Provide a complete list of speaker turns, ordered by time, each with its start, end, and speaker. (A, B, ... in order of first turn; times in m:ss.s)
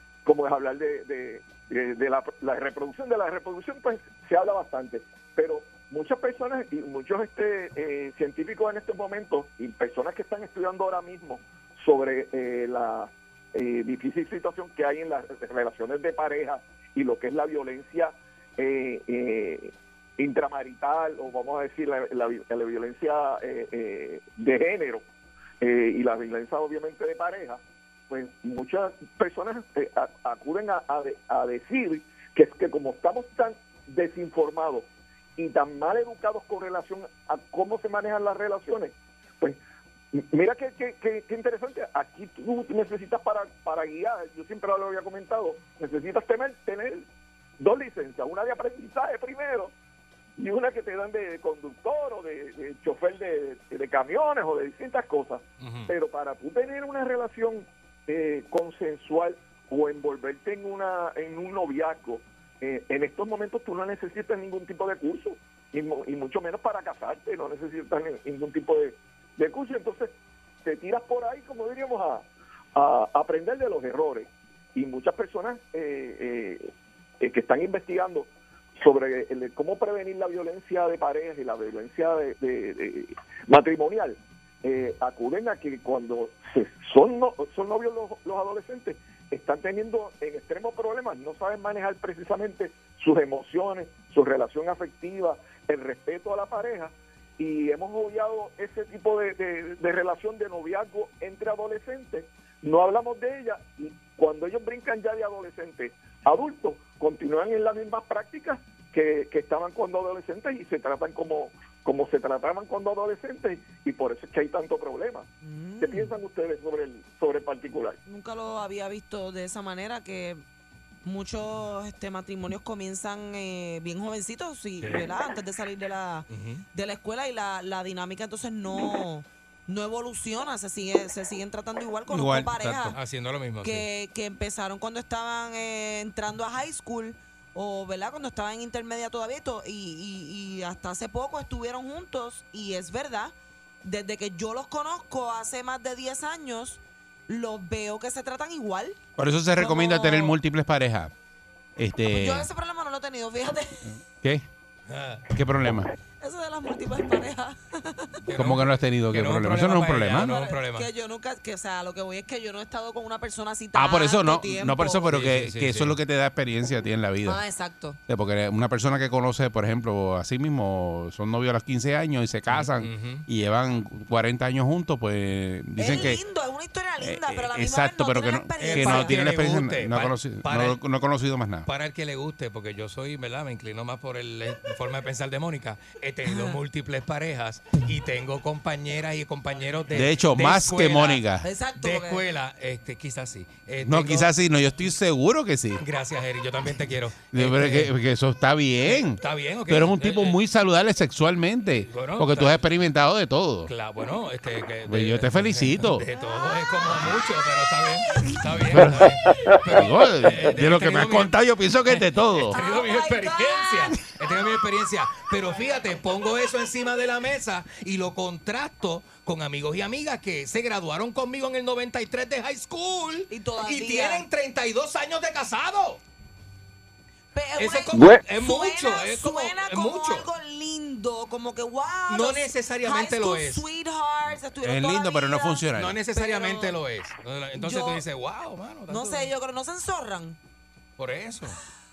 0:00.2-0:25.0 A
0:25.6-0:39.6 A
0:40.1-0:47.0 A
0:47.6-0:49.7 A
0:50.4-1:10.1 A
0:55.6-0:55.9 B
1:10.6-1:55.3 A
1:55.4-1:56.1 C
1:55.8-1:58.0 A
1:58.0-2:00.4 C
2:01.0-2:13.0 C
2:06.3-2:06.6 B
2:12.1-2:13.0 D
2:12.9-2:13.9 B
2:13.6-2:29.0 C
2:29.2-2:31.1 D
2:29.6-2:30.4 C
2:31.8-2:32.5 D
2:32.0-2:33.9 C
2:34.2-2:34.5 D
2:34.9-2:35.2 B
2:35.3-2:35.9 D
2:36.2-2:38.2 C
2:38.2-2:40.9 B
2:38.4-2:40.4 D
2:40.2-2:45.1 C
2:43.7-2:47.4 D
2:45.1-2:46.0 B
2:47.2-2:48.0 C
2:48.1-2:56.2 D
2:52.5-2:53.2 B
2:55.8-2:59.2 C
2:57.0-3:01.7 D
2:58.6-3:00.8 B
3:01.6-3:11.2 B
3:06.3-3:06.6 C
3:09.9-3:11.4 D
3:11.4-3:12.2 C
3:11.8-3:14.3 B
3:13.8-3:15.8 D
3:15.8-3:17.9 B
3:17.3-3:23.7 D
3:18.8-3:20.4 B
3:21.9-3:22.6 B
3:23.7-3:31.3 B
3:24.9-3:26.1 D
3:26.2-3:26.8 C
3:28.7-3:32.5 D
3:31.8-3:46.0 B
3:32.5-3:34.2 C
3:43.3-3:44.2 C
3:47.3-3:56.8 C
3:47.6-3:50.3 B
3:52.1-3:53.6 B
3:54.6-3:56.0 D
3:55.7-3:59.3 B
3:57.6-3:58.0 C
3:58.9-4:00.4 C
4:01.0-4:01.6 B